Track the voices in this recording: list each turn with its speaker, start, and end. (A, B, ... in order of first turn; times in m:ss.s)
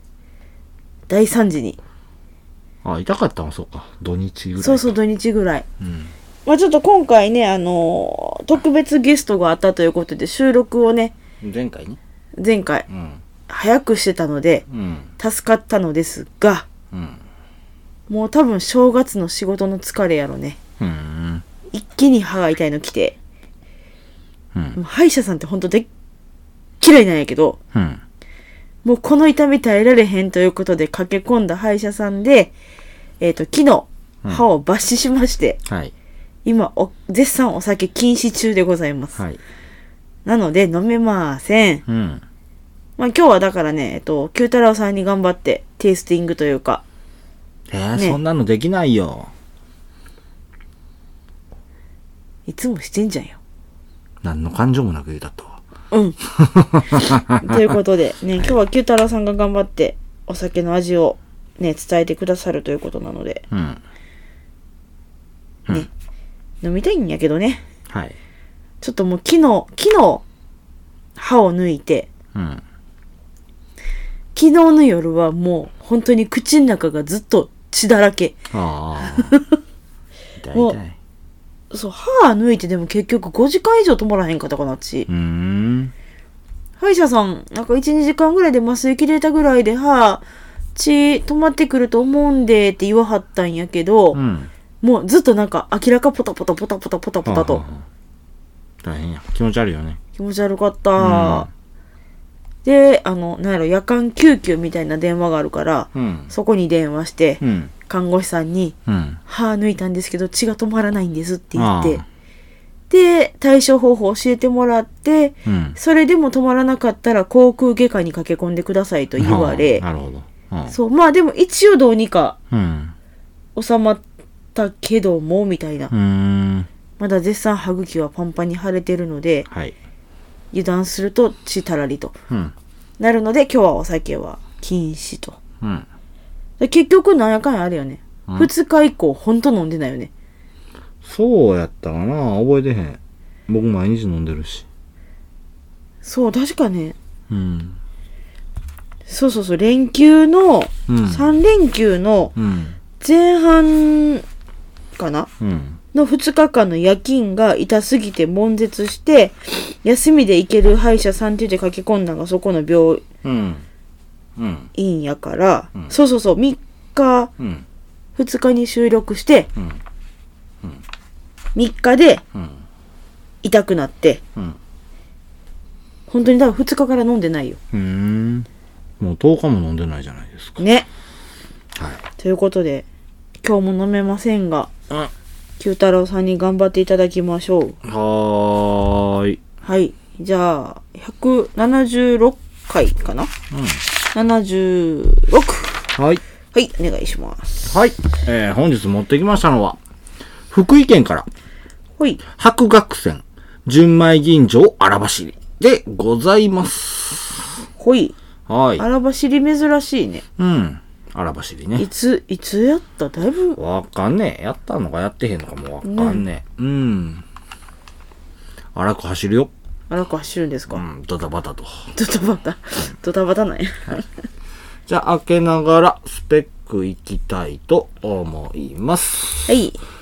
0:01.1-0:01.8 A
0:02.8-0:05.0 B
0:04.6-0:05.6 A
0:05.8-0:06.1 B
0:06.4-0:11.1 A
0:11.4-0:12.0 B
0:12.4-0:12.9 A
0:12.9-0:13.2 B
0:13.5-0:14.6 A
0:14.7-0:15.1 B
0:15.2-0:16.7 A
0:16.9-0:17.2 B
0:18.1-0:20.6 A
0:20.8-0:21.4 B
0:21.7-0:23.2 A
0:24.7-0:25.9 A
0:26.8-0:27.6 A
0:27.7-0:28.0 B
0:28.8-0:32.5 A
0:33.2-0:35.6 A
0:35.7-0:35.9 B
0:36.4-0:39.2 A
0:40.2-0:41.8 A
0:41.9-0:42.2 B
0:43.0-0:46.8 A
0:47.7-0:49.3 B
0:52.5-0:53.4 A
0:54.2-0:55.6 B
0:55.9-0:56.2 A
0:56.3-0:57.6 B
0:56.9-1:03.4 A
1:03.5-1:03.8 B
1:06.6-1:07.6 A
1:07.9-1:08.2 B
1:08.8-1:10.2 A
1:11.2-1:12.1 A
1:12.3-1:12.6 B
1:14.3-1:18.4 A
1:18.5-1:19.4 B
1:19.0-1:19.6 A
1:20.4-1:21.0 B
1:21.7-1:25.1 A
1:25.1-1:25.9 B
1:26.8-1:30.2 A
1:30.7-1:34.2 A
1:34.1-1:34.5 B
1:34.8-1:37.6 A
1:37.2-1:37.8 B
1:38.8-1:40.0 B
1:40.2-1:41.5 A
1:41.0-1:41.5 B
1:42.6-1:48.8 A
1:45.9-1:46.3 B
1:47.4-1:47.7 B
1:48.9-1:49.2 B
1:49.3-1:52.0 A
1:51.5-1:52.0 B
1:52.9-1:59.8 A
1:55.4-1:55.8 B
1:59.2-2:00.8 B
2:00.7-2:02.4 A
2:02.5-2:02.9 B
2:03.5-2:04.0 A
2:04.5-2:05.9 A
2:05.9-2:06.7 B
2:07.0-2:09.5 A
2:09.5-2:09.7 B
2:10.5-2:12.2 A
2:13.0-2:15.4 A
2:15.6-2:15.9 B
2:16.6-2:20.1 A
2:21.0-2:24.6 B
2:26.0-2:27.0 A
2:27.3-2:27.8 B
2:29.1-2:32.3 A
2:30.9-2:31.3 B
2:32.4-2:32.8 B
2:33.0-2:34.2 A
2:35.0-2:35.3 A
2:35.4-2:35.8 B
2:35.9-2:43.0 A
2:43.2-2:43.6 B
2:44.4-2:44.7 B
2:44.7-2:47.3 A
2:47.4-2:47.6 B
2:48.2-2:49.5 A
2:51.5-2:52.2 A
2:53.4-2:54.2 A
2:56.1-2:57.6 A
2:57.7-2:58.5 B
2:59.0-3:00.6 B
3:00.6-3:00.9 A
3:01.8-3:02.0 B
3:02.2-3:02.8 A
3:03.4-3:04.7 A
3:05.6-3:07.8 A
3:07.8-3:09.4 B
3:09.6-3:13.3 A
3:13.5-3:13.8 B
3:14.1-3:15.8 A
3:16.0-3:16.2 B
3:16.5-3:17.7 A
3:17.7-3:19.8 B
3:20.5-3:21.3 B
3:22.3-3:27.6 B
3:27.8-3:28.1 A
3:28.5-3:28.8 B
3:28.8-3:30.2 A
3:30.4-3:31.8 B
3:31.8-3:33.6 A
3:33.6-3:37.2 B
3:35.8-3:36.2 A
3:38.7-3:39.5 B
3:39.9-3:40.8 A
3:40.7-3:41.9 B
3:41.9-3:44.1 A
3:44.9-3:49.6 B
3:49.5-3:49.8 A